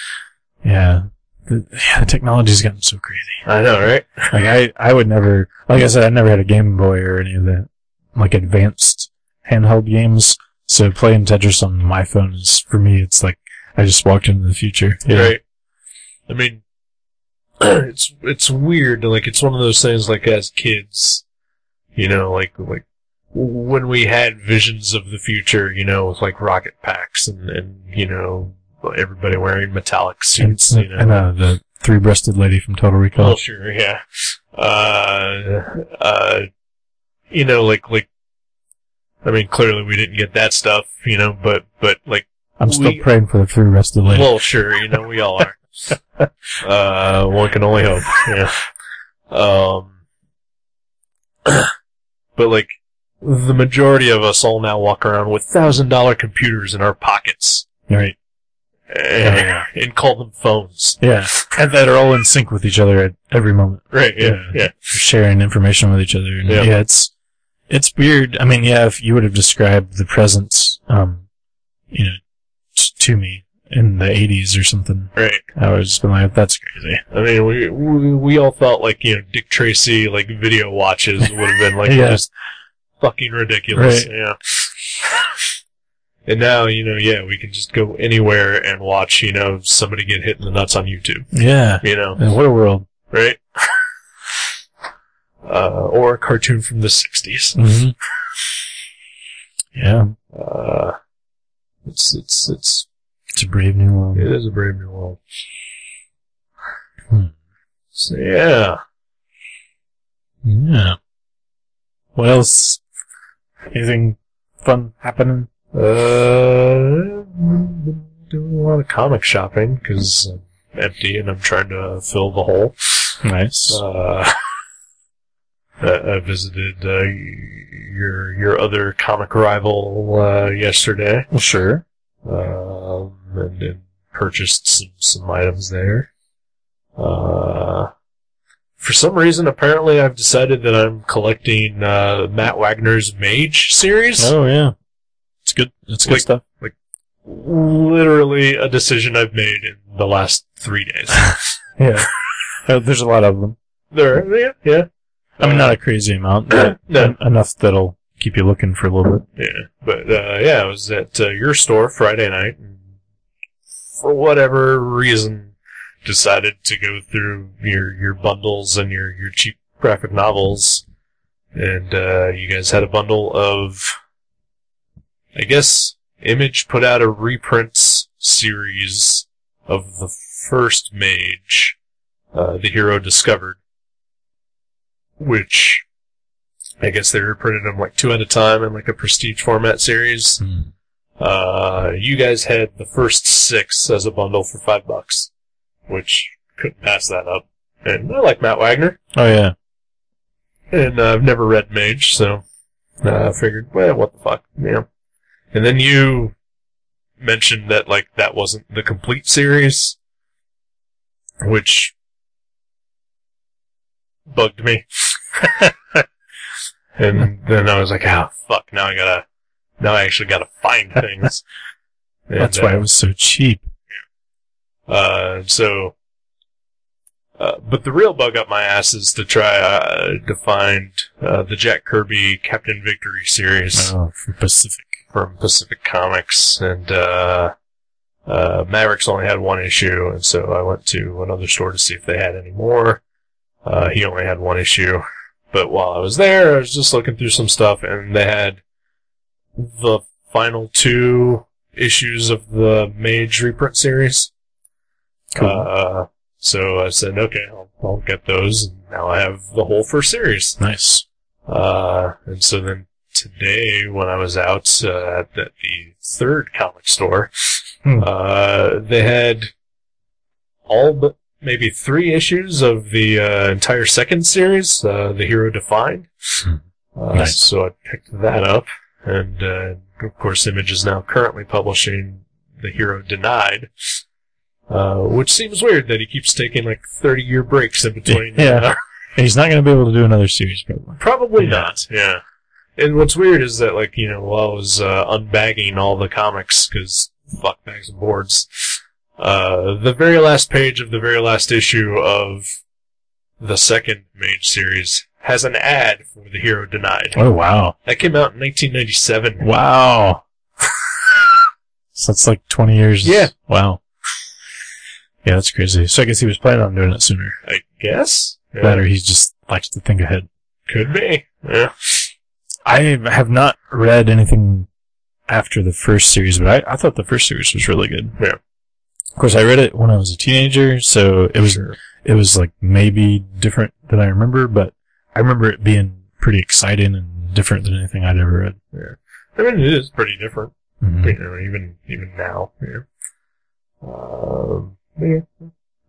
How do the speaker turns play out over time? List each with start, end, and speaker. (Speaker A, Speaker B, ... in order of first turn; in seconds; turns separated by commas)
Speaker A: 0.6-3.4, Speaker B: 3.4-4.3, Speaker A: 4.3-15.4, Speaker B: 15.0-15.4, Speaker B: 16.3-16.6, Speaker B: 17.6-21.2, Speaker B: 21.9-31.1, Speaker A: 30.4-33.4, Speaker B: 33.2-36.5, Speaker B: 37.3-38.1, Speaker B: 39.2-43.0, Speaker A: 42.6-44.3, Speaker B: 44.1-45.9, Speaker B: 46.6-48.6, Speaker B: 49.3-50.0, Speaker B: 51.5-51.7, Speaker B: 52.3-52.7, Speaker B: 53.2-57.7, Speaker A: 57.9-58.1, Speaker B: 58.9-61.5, Speaker A: 59.2-59.6, Speaker A: 61.0-67.1, Speaker B: 63.9-64.8, Speaker B: 66.5-66.7, Speaker A: 67.7-71.2, Speaker A: 71.9-72.2, Speaker A: 72.7-77.0, Speaker B: 75.2-75.4, Speaker B: 77.1-82.3, Speaker A: 81.8-82.2, Speaker B: 83.0-85.3, Speaker A: 83.7-84.1, Speaker B: 86.2-91.3, Speaker A: 91.3-92.9, Speaker B: 91.8-92.2, Speaker B: 93.1-93.8, Speaker B: 95.4-97.6, Speaker A: 97.5-97.9, Speaker A: 99.7-100.1, Speaker B: 100.3-101.0, Speaker B: 101.8-102.8, Speaker A: 103.3-104.3, Speaker B: 104.2-105.2, Speaker B: 107.9-108.8, Speaker A: 110.4-111.0, Speaker A: 112.1-112.8, Speaker A: 113.7-115.5, Speaker B: 115.7-123.2, Speaker A: 123.2-123.8, Speaker B: 123.7-124.3, Speaker B: 125.8-131.3, Speaker A: 131.3-131.8, Speaker B: 132.2-136.1, Speaker B: 137.0-137.9, Speaker B: 138.8-144.3, Speaker A: 144.2-144.7, Speaker A: 145.4-146.4, Speaker B: 146.0-151.6, Speaker A: 151.8-152.1, Speaker A: 152.6-153.6, Speaker B: 153.9-155.8, Speaker A: 155.4-159.2, Speaker B: 156.5-157.2, Speaker B: 159.3-162.8, Speaker B: 164.0-165.5, Speaker B: 166.0-170.8, Speaker B: 171.5-174.0, Speaker B: 175.3-181.8, Speaker B: 182.3-183.6, Speaker B: 185.2-185.8, Speaker B: 186.8-190.4, Speaker A: 190.4-190.7, Speaker B: 191.2-195.3, Speaker B: 195.9-199.0, Speaker A: 199.1-199.5, Speaker B: 200.7-202.4, Speaker B: 203.0-204.8, Speaker B: 205.5-206.3, Speaker B: 207.2-210.0, Speaker B: 211.4-211.9, Speaker B: 214.3-215.7, Speaker B: 217.0-219.2, Speaker B: 219.8-221.4, Speaker B: 222.3-222.8, Speaker A: 222.4-223.7, Speaker B: 224.9-225.9, Speaker B: 227.4-233.9, Speaker A: 233.7-235.0, Speaker B: 235.1-237.5, Speaker B: 238.2-243.0, Speaker B: 243.6-248.6, Speaker B: 249.5-254.3, Speaker A: 255.3-255.7, Speaker B: 255.3-260.6, Speaker A: 260.6-261.0, Speaker B: 261.5-267.3, Speaker B: 267.9-269.5, Speaker B: 270.7-276.1, Speaker B: 276.9-283.7, Speaker A: 277.1-277.4, Speaker B: 284.7-288.8, Speaker A: 288.1-291.8, Speaker B: 291.0-292.2, Speaker B: 292.8-302.5, Speaker B: 303.4-307.2, Speaker A: 307.1-307.8, Speaker B: 307.8-309.5, Speaker A: 309.4-310.2, Speaker A: 311.9-313.8, Speaker B: 313.0-313.3, Speaker A: 315.2-317.4, Speaker B: 317.4-318.8, Speaker A: 318.6-320.3, Speaker B: 320.7-322.1, Speaker A: 322.6-324.7, Speaker A: 325.3-328.2, Speaker A: 329.2-338.6, Speaker B: 331.4-331.8, Speaker B: 338.7-342.9, Speaker A: 340.8-341.2, Speaker B: 343.8-345.5